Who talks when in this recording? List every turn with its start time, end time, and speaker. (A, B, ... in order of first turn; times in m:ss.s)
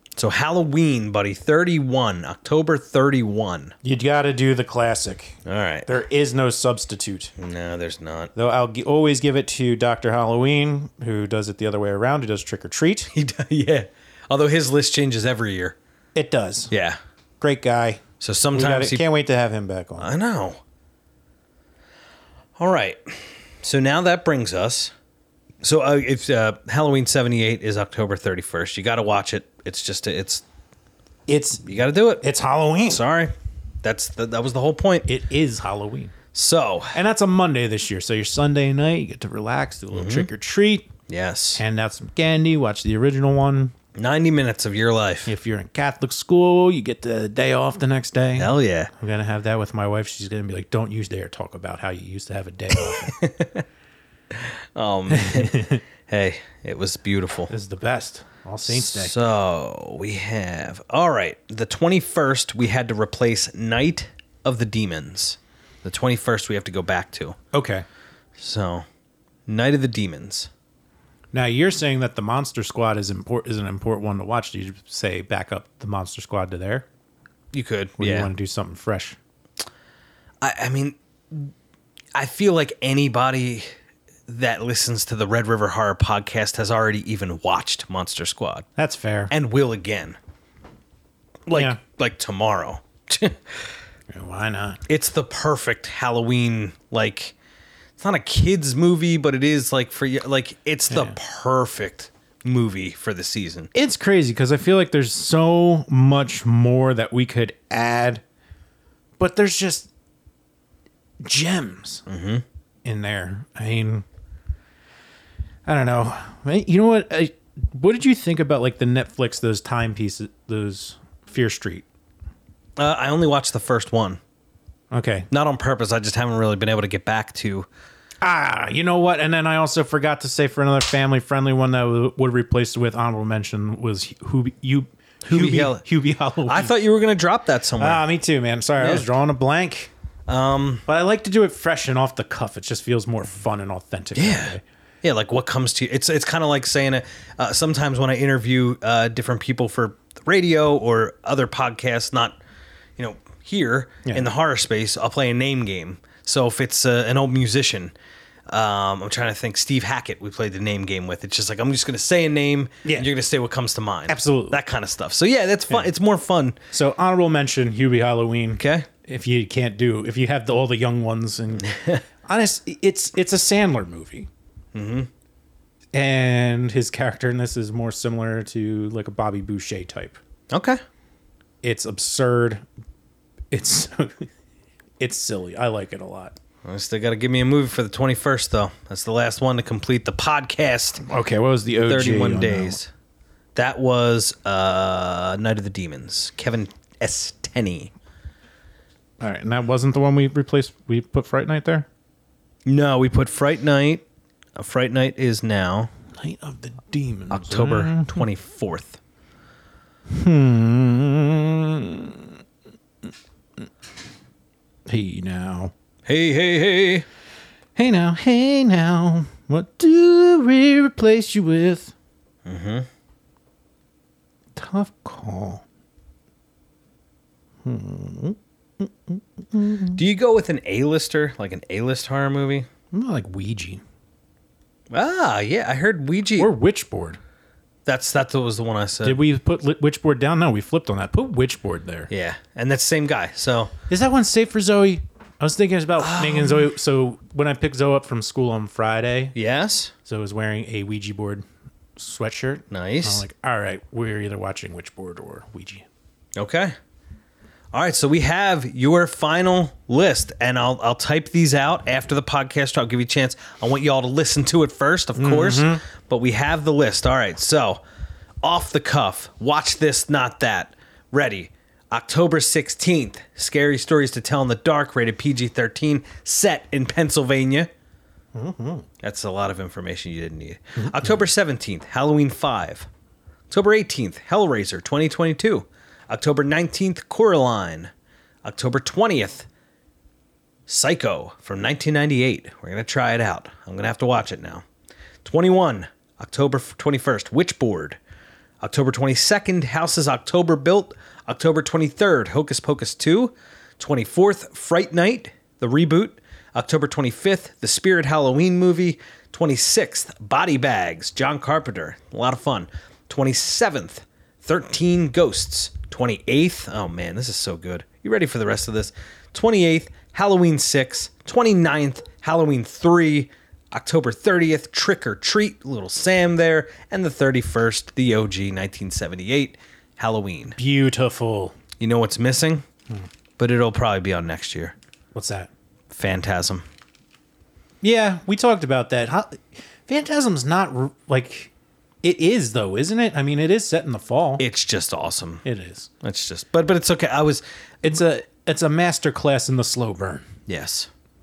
0:00.2-0:03.7 A
0:03.8-0:07.3 B
0:05.4-0:05.9 A
0:07.4-0:08.3 A
0:08.3-0:13.1 B
0:13.1-0:15.8 A
0:16.1-0:16.7 B
0:16.7-0:17.0 A
0:17.4-0:18.0 B
0:18.2-0:19.0 A
0:18.5-0:20.1 B
0:20.0-0:20.6 A
0:22.6-0:24.9 A
0:25.6-0:30.4 A
0:31.3-0:31.7 B
0:31.6-0:32.2 A
0:32.2-0:33.0 B
0:32.9-0:35.1 A
0:35.1-0:36.1 B
0:36.3-0:37.0 A
0:36.9-0:40.9 B
0:39.9-0:40.3 A
0:41.1-0:41.6 A
0:41.6-0:43.7 B
0:43.9-0:45.3 A
0:45.3-0:53.2 B
0:48.4-0:48.9 A
0:53.0-0:53.6 A
0:54.3-0:57.5 A
0:55.1-0:55.8 B
0:57.5-0:59.1 B
0:58.7-1:07.4 A
1:07.5-1:07.8 B
1:08.4-1:08.8 A
1:09.5-1:10.5 A
1:11.3-1:16.8 B
1:17.5-1:18.3 A
1:18.0-1:19.2 B
1:20.4-1:21.5 A
1:22.1-1:23.7 A
1:24.3-1:28.6 A
1:28.8-1:29.3 B
1:29.3-1:30.2 A
1:31.5-1:33.7 A
1:31.5-1:31.8 B
1:34.1-1:34.8 B
1:34.9-1:37.3 A
1:38.0-1:43.7 A
1:40.9-1:41.2 B
1:43.7-1:48.2 B
1:49.2-1:49.9 B
1:51.2-1:52.0 B
1:52.1-1:52.4 A
1:52.8-1:54.0 B
1:55.6-2:01.8 B
2:02.8-2:04.2 A
2:04.9-2:05.3 B
2:05.3-2:07.7 A
2:08.2-2:16.7 B
2:15.2-2:15.8 A
2:16.4-2:18.0 A
2:17.8-2:19.9 B
2:18.8-2:19.1 A
2:20.3-2:20.8 A
2:20.9-2:24.6 B
2:24.1-2:32.4 A
2:33.0-2:37.9 A
2:38.5-2:46.6 A
2:42.8-2:43.1 B
2:44.1-2:44.6 B
2:46.7-2:54.3 B
2:48.6-2:48.9 A
2:51.7-2:52.0 A
2:54.7-2:55.1 A
2:55.9-3:00.2 B
3:00.5-3:00.8 A
3:01.6-3:02.6 B
3:03.5-3:04.3 B
3:05.0-3:06.4 B
3:06.6-3:11.0 A
3:11.0-3:12.8 B
3:11.8-3:12.9 A
3:13.5-3:17.9 A
3:19.2-3:21.9 B
3:22.6-3:24.0 A
3:24.6-3:25.9 A
3:26.2-3:28.2 B
3:27.3-3:29.0 A
3:30.1-3:32.3 B
3:34.9-3:35.7 B
3:36.0-3:37.0 A
3:37.8-3:41.9 B
3:42.4-3:42.9 A
3:44.6-3:45.6 B
3:47.6-3:50.0 B
3:50.0-3:52.7 A
3:52.9-3:53.8 B
3:54.9-3:56.5 A
3:56.4-3:57.2 B
3:57.8-3:59.2 A
3:59.0-4:02.1 B
4:02.1-4:03.7 A
4:03.9-4:09.3 B
4:06.0-4:06.7 A
4:09.4-4:09.9 A
4:10.0-4:11.4 B
4:12.0-4:15.8 B
4:12.7-4:13.2 A
4:16.4-4:16.7 A
4:17.7-4:27.8 A
4:25.2-4:25.8 B
4:28.4-4:37.7 A
4:38.3-4:38.9 B
4:39.0-4:42.9 A
4:40.8-4:41.2 B
4:43.5-4:47.9 A
4:48.4-4:49.5 A
4:50.7-4:54.6 A
4:55.2-4:58.0 A
4:58.6-5:30.6 A
5:30.6-5:31.5 B
5:31.8-5:32.6 A
5:33.4-5:34.7 A
5:35.1-5:35.5 B
5:35.9-5:36.6 A
5:37.8-5:41.5 B
5:42.0-5:44.4 B
5:44.4-5:45.4 A
5:45.4-5:45.9 B
5:46.0-5:47.4 A
5:47.8-5:50.3 B
5:50.5-5:50.9 A